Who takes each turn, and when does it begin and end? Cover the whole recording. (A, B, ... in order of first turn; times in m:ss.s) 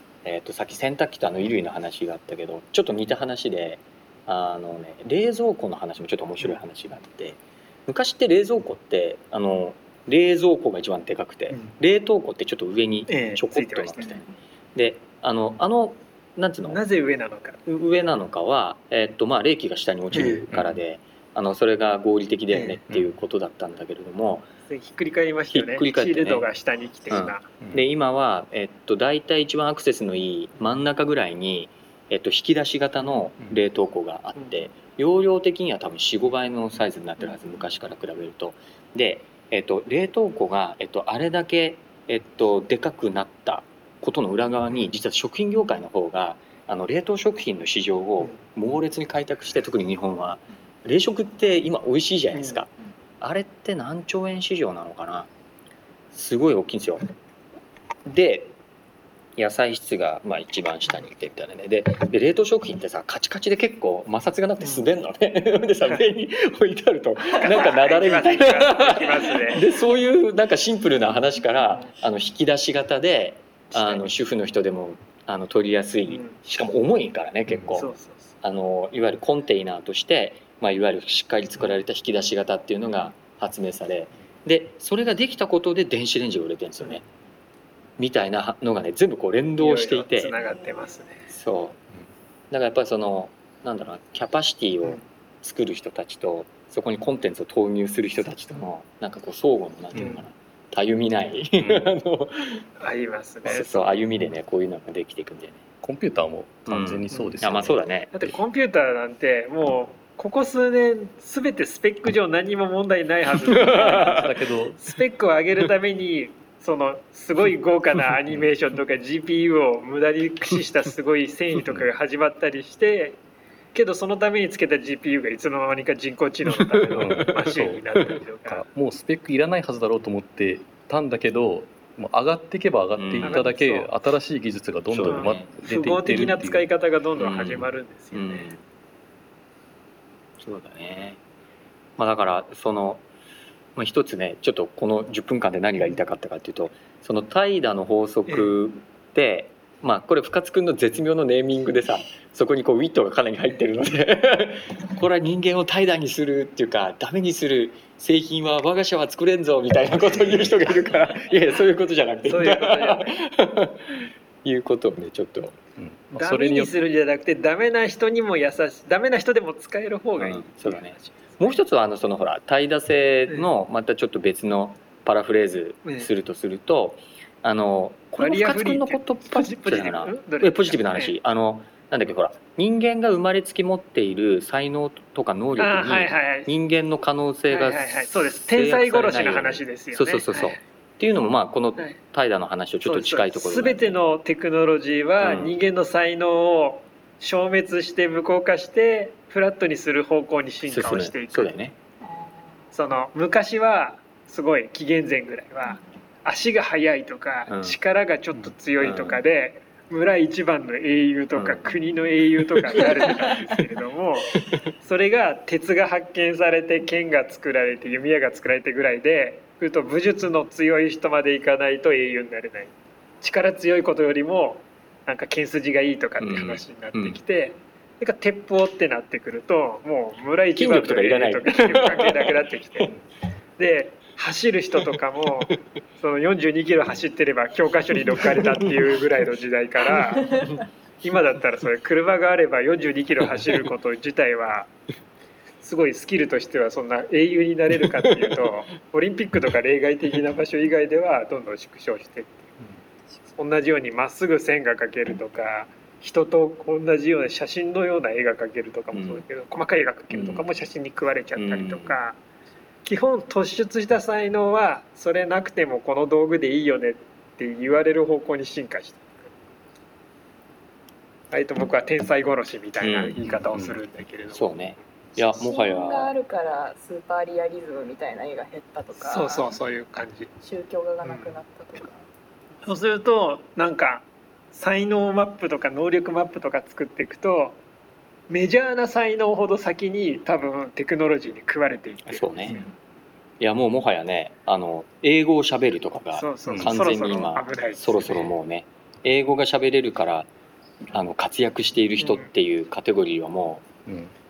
0:00.2-0:16.8 A
0:13.1-0:14.1 B
0:16.7-0:17.6 B
0:17.6-0:24.5 A
0:20.1-0:20.4 B
0:20.5-0:20.8 C
0:22.5-0:22.8 B
0:24.7-0:27.4 B
0:25.5-0:26.4 A
0:27.1-0:52.7 A
0:52.3-0:52.6 B
0:53.2-0:55.3 A
0:56.1-0:57.0 A
0:58.0-0:58.5 A
0:59.4-1:27.0 A
1:04.6-1:04.9 B
1:07.4-1:09.6 B
1:13.7-1:14.1 B
1:16.1-1:16.4 B
1:17.7-1:18.3 B
1:28.0-1:30.3 A
1:29.6-1:31.3 B
1:31.3-1:31.8 A
1:32.5-1:42.7 A
1:39.9-1:40.2 B
1:41.6-1:41.9 C
1:42.8-1:44.0 B
1:43.4-1:45.6 A
1:45.8-1:48.3 C
1:46.7-1:48.1 A
1:47.1-1:47.4 B
1:48.1-2:03.2 B
1:53.5-1:54.3 A
1:53.6-1:54.8 C
2:03.7-2:08.6 B
2:06.9-2:16.7 C
2:13.0-2:13.5 A
2:13.2-2:13.9 B
2:14.9-2:15.5 A
2:15.1-2:18.5 B
2:17.2-2:18.6 A
2:20.4-2:21.2 A
2:22.0-2:23.0 A
2:23.8-2:45.6 A
2:28.3-2:28.5 B
2:42.2-2:43.2 B
2:45.8-2:46.8 C
2:46.2-2:51.6 B
2:50.2-3:14.0 A
2:58.2-3:01.1 B
3:05.6-3:06.5 B
3:07.5-3:10.6 B
3:12.8-3:21.5 B
3:15.2-3:15.5 A
3:20.6-3:21.8 A
3:22.7-3:52.9 B
3:27.5-3:27.8 A
3:28.8-3:29.2 A
3:31.4-3:31.7 A
3:32.8-3:33.3 A
3:46.2-3:47.2 A
3:50.6-3:52.9 A
3:53.6-4:04.7 B
3:58.2-3:58.7 A
4:05.6-4:12.5 B
4:08.0-4:08.4 A
4:13.4-4:22.2 B
4:18.9-4:19.2 A
4:20.1-4:20.4 A
4:21.4-4:22.0 A
4:22.8-4:29.3 B
4:31.3-4:34.5 B
4:32.8-4:33.8 C
4:34.3-4:36.1 A
4:35.3-4:39.5 D
4:39.0-4:40.3 B
4:40.4-4:42.0 D
4:41.0-4:41.3 B
4:42.6-4:47.6 B
4:48.3-4:52.7 B
4:52.0-4:52.6 A
4:53.4-5:00.3 A
4:56.1-4:58.3 B
4:56.5-4:56.7 C
5:00.9-5:03.6 A
5:02.0-5:02.3 B
5:03.9-5:04.1 C